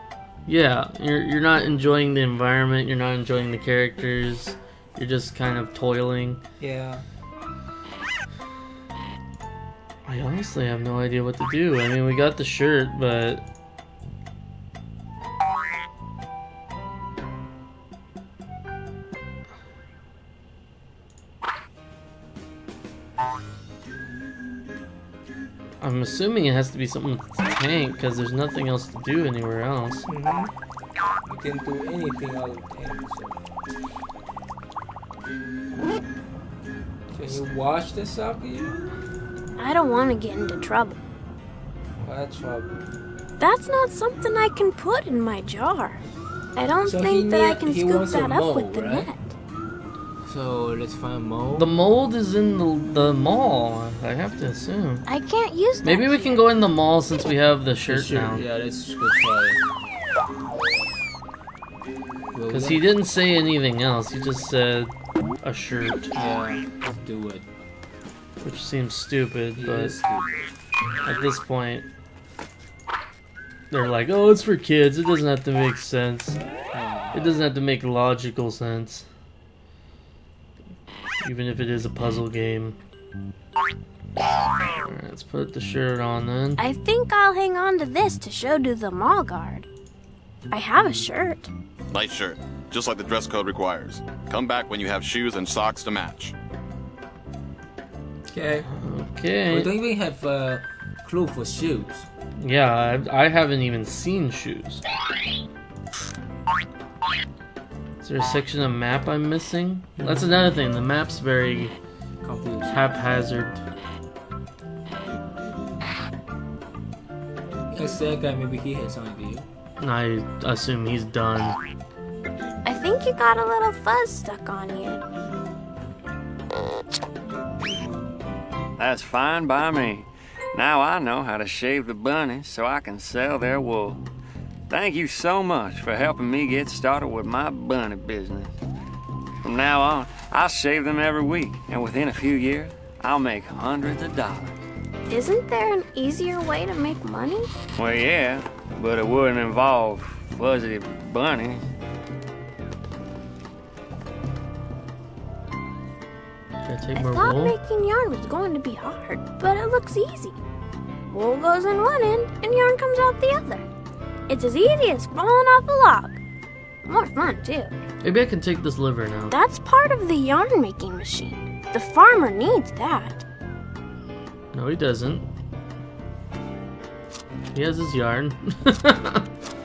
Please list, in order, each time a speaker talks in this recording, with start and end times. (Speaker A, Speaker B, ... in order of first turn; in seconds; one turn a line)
Speaker A: 0.5-6.4
Speaker B: 6.6-7.0
Speaker A: 10.1-13.4
Speaker A: 25.8-30.1
Speaker B: 30.1-30.5
Speaker B: 31.2-33.4
Speaker B: 37.1-38.8
Speaker C: 39.6-41.0
Speaker B: 42.0-42.8
Speaker C: 43.4-46.0
Speaker C: 46.5-49.3
Speaker B: 46.8-49.1
Speaker B: 50.2-51.7
Speaker A: 51.5-55.0
Speaker C: 55.1-56.4
Speaker A: 55.8-58.4
Speaker B: 57.8-59.6
Speaker B: 62.3-62.8
Speaker A: 62.5-66.1
Speaker B: 66.1-67.5
Speaker A: 68.4-70.0
Speaker B: 69.5-70.5
Speaker A: 71.0-71.9
Speaker A: 73.7-76.4
Speaker B: 76.7-77.2
Speaker A: 77.1-79.1
Speaker A: 81.2-82.8
Speaker A: 84.8-86.6
Speaker C: 86.6-89.7
Speaker C: 90.5-91.5
Speaker D: 91.9-96.3
Speaker B: 98.3-98.7
Speaker A: 98.7-99.7
Speaker B: 99.5-102.1
Speaker A: 102.4-104.8
Speaker A: 108.0-111.7
Speaker B: 110.0-110.3
Speaker B: 112.2-112.8
Speaker A: 112.7-113.6
Speaker B: 117.7-119.5
Speaker A: 119.8-121.6
Speaker C: 122.6-125.0
Speaker E: 128.8-134.0
Speaker E: 134.7-138.5
Speaker E: 139.4-144.6
Speaker C: 145.1-147.5
Speaker E: 147.8-151.6
Speaker A: 156.6-157.6
Speaker C: 156.9-160.4
Speaker C: 161.1-163.7
Speaker C: 164.3-166.2
Speaker C: 166.8-167.7
Speaker A: 168.0-169.3
Speaker C: 169.3-173.2
Speaker A: 174.5-175.2
Speaker A: 177.5-179.3